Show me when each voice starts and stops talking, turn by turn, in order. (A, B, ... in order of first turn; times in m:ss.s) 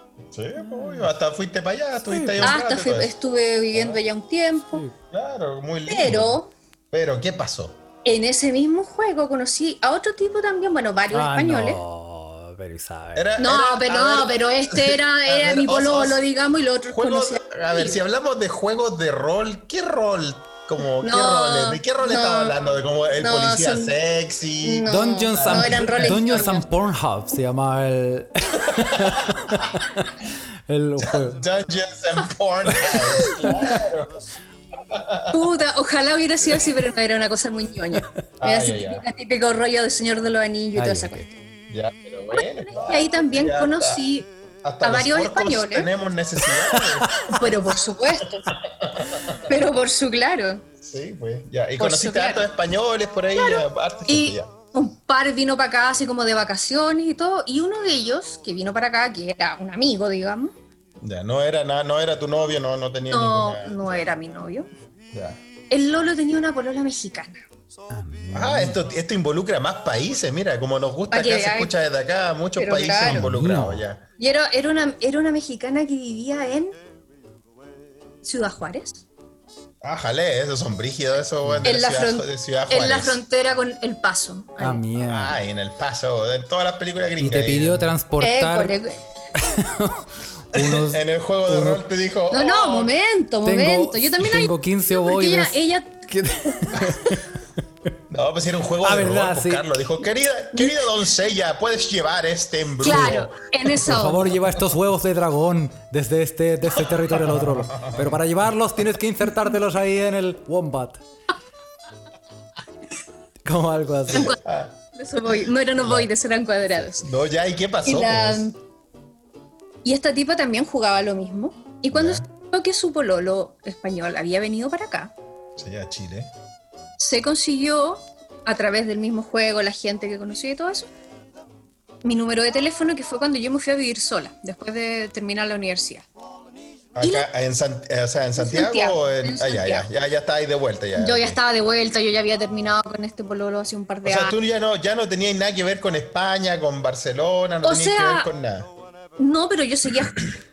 0:00.3-0:03.1 A
0:00.6-0:01.1 B
0:02.1-0:02.6 B
0:02.4-0:04.8 C
0:03.7-0:04.0 A
0:05.1-0:07.8 A
0:05.9-0:06.5 C
0:08.0-0:11.8 C
0:11.1-0:13.4 B
0:13.2-0:16.2 A
0:13.4-0:18.0 C
0:16.9-0:26.5 A
0:21.0-0:22.6 C
0:23.2-0:24.0 C
0:24.6-0:26.6 C
0:24.9-0:31.4 B
0:28.7-0:29.7 A
0:31.0-0:34.2 A
0:32.7-0:33.6 B
0:34.8-0:35.5 A
0:35.3-0:41.3 C
0:38.4-0:39.0 A
0:40.8-0:41.3 B
0:41.7-0:44.0 A
0:42.3-0:44.3 C
0:44.6-0:47.5 A
0:44.8-0:45.9 C
0:46.8-0:47.4 B
0:47.3-0:48.5 C
0:48.4-0:49.6 A
0:49.4-0:50.7 C
0:50.8-0:54.5 A
0:51.8-0:52.5 C
0:53.4-1:00.5 C
1:01.0-1:04.1 A
1:03.1-1:04.7 C
1:05.1-1:05.4 A
1:05.7-1:07.4 C
1:07.9-1:08.8 B
1:08.3-1:14.0 A
1:11.1-1:11.7 C
1:12.6-1:13.3 C
1:13.0-1:13.8 B
1:14.2-1:16.8 C
1:18.2-1:19.0 C
1:19.8-1:23.2 A
1:21.4-1:21.7 B
1:21.6-1:24.8 C
1:24.6-1:25.4 B
1:25.0-1:28.0 A
1:27.2-1:28.8 B
1:28.2-1:29.0 C
1:29.4-1:31.8 B
1:30.5-1:32.9 A
1:32.3-1:36.0 C
1:33.4-1:37.4 B
1:36.6-1:36.9 C
1:38.1-1:43.4 A
1:38.8-1:39.7 B
1:40.6-1:40.8 C
1:42.8-1:44.3 C
1:42.9-1:43.2 B
1:43.8-1:51.0 B
1:47.1-1:48.2 A
1:53.4-1:54.4 B
1:54.1-1:54.4 C
1:54.1-1:54.8 A
1:55.0-1:57.1 C
1:55.8-1:56.1 A
1:56.8-1:58.5 A
1:57.8-1:58.6 C
1:59.8-2:05.1 C
2:01.9-2:02.3 A
2:05.6-2:06.3 A
2:07.0-2:10.9 C
2:12.0-2:16.0 C
2:17.0-2:21.4 A
2:17.0-2:17.3 C
2:18.4-2:19.9 C
2:21.0-2:24.4 C
2:24.0-2:28.7 A
2:27.6-2:28.3 C
2:29.2-2:30.3 C